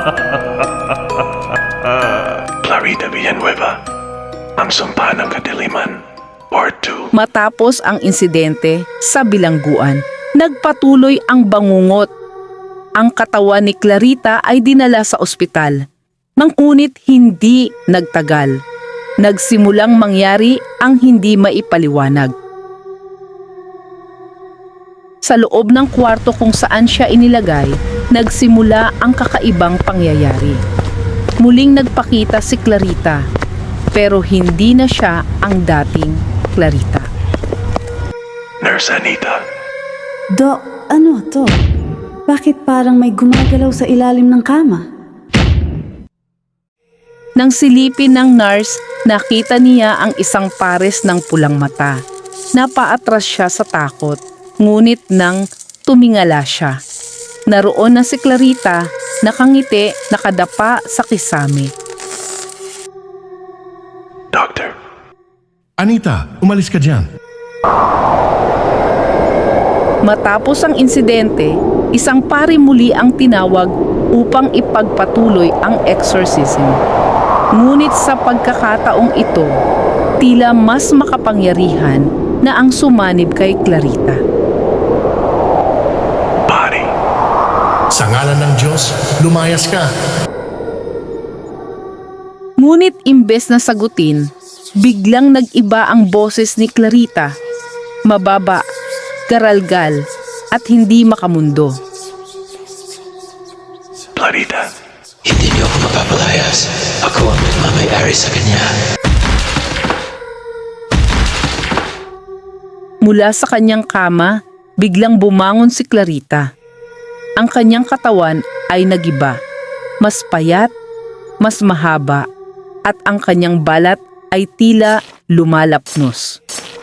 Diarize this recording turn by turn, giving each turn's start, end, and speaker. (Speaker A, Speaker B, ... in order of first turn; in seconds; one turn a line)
Speaker A: 2.6-3.8
Speaker A: 4.6-7.1
Speaker B: 7.1-12.1
Speaker B: 13.0-15.8
Speaker B: 16.4-18.6
Speaker B: 19.2-22.3
Speaker B: 25.2-30.6
Speaker B: 31.4-33.2
Speaker B: 33.9-37.1
Speaker A: 38.6-39.4
Speaker C: 40.3-41.6
Speaker C: 42.3-44.9
Speaker B: 47.4-52.0
Speaker B: 52.6-56.8
Speaker B: 57.5-61.7
Speaker A: 64.3-64.7
Speaker D: 65.8-67.1
Speaker B: 70.0-76.8
Speaker B: 77.6-79.5
Speaker B: 80.2-84.2
Speaker A: 86.4-86.9
Speaker D: 87.9-89.9
Speaker B: 92.6-94.3
Speaker B: 94.8-97.3
Speaker B: 98.1-98.6
Speaker B: 99.3-100.0
Speaker B: 100.5-101.8
Speaker A: 104.2-104.7
Speaker E: 105.2-108.7
Speaker B: 113.0-116.5
Speaker B: 117.4-119.4
Speaker B: 120.0-120.7
Speaker B: 121.4-122.3
Speaker B: 122.8-126.4